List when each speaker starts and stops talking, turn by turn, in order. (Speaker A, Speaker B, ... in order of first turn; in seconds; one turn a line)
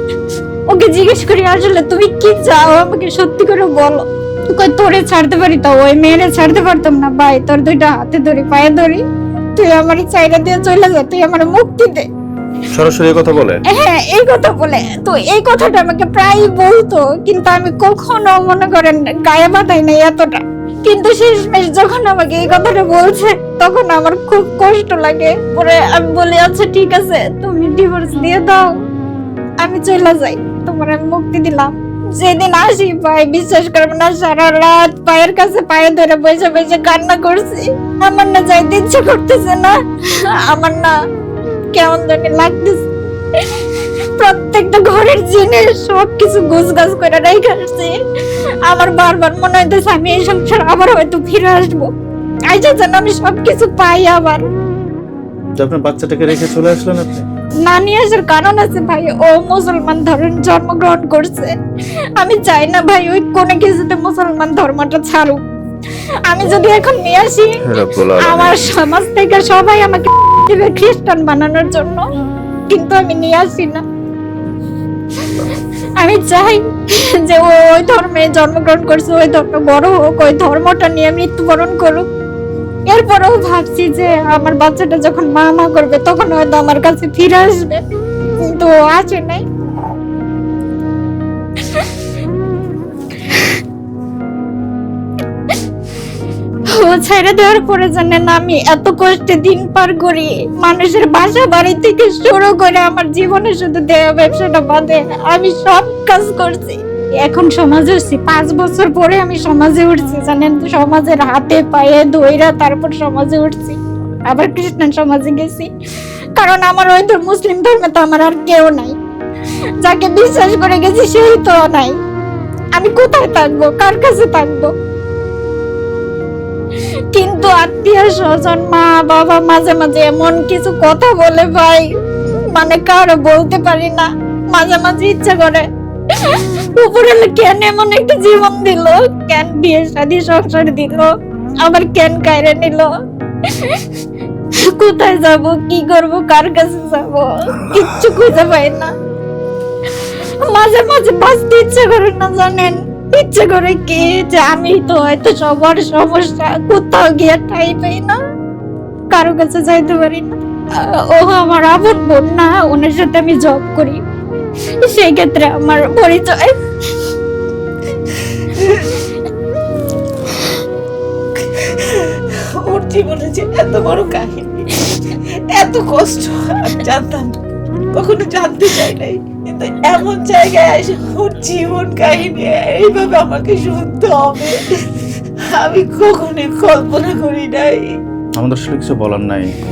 Speaker A: 0.7-9.0
Speaker A: 9.5-12.0
Speaker B: 12.7-13.6
Speaker A: 13.7-28.7
Speaker A: 29.6-40.9
Speaker A: 41.7-47.9
Speaker A: 48.6-51.9
Speaker A: 52.5-54.5
Speaker B: 55.6-57.2
Speaker A: 57.6-61.5
Speaker A: 62.2-65.4
Speaker A: 66.3-72.0
Speaker B: 67.6-68.9
Speaker A: 72.7-73.8
Speaker A: 75.2-82.1
Speaker A: 82.9-87.8
Speaker A: 88.4-89.4
Speaker A: 91.6-92.0
Speaker A: 93.2-93.6
Speaker A: 96.7-115.7
Speaker A: 116.4-119.0
Speaker A: 119.8-121.9
Speaker A: 122.7-124.7
Speaker A: 127.1-131.9
Speaker A: 132.5-142.9
Speaker A: 143.4-143.9
Speaker A: 144.6-148.9
Speaker A: 149.9-158.2
Speaker A: 159.1-164.0
Speaker A: 164.8-167.0
Speaker C: 168.5-168.9
Speaker C: 171.5-177.4
Speaker C: 177.9-188.0
Speaker B: 188.4-189.5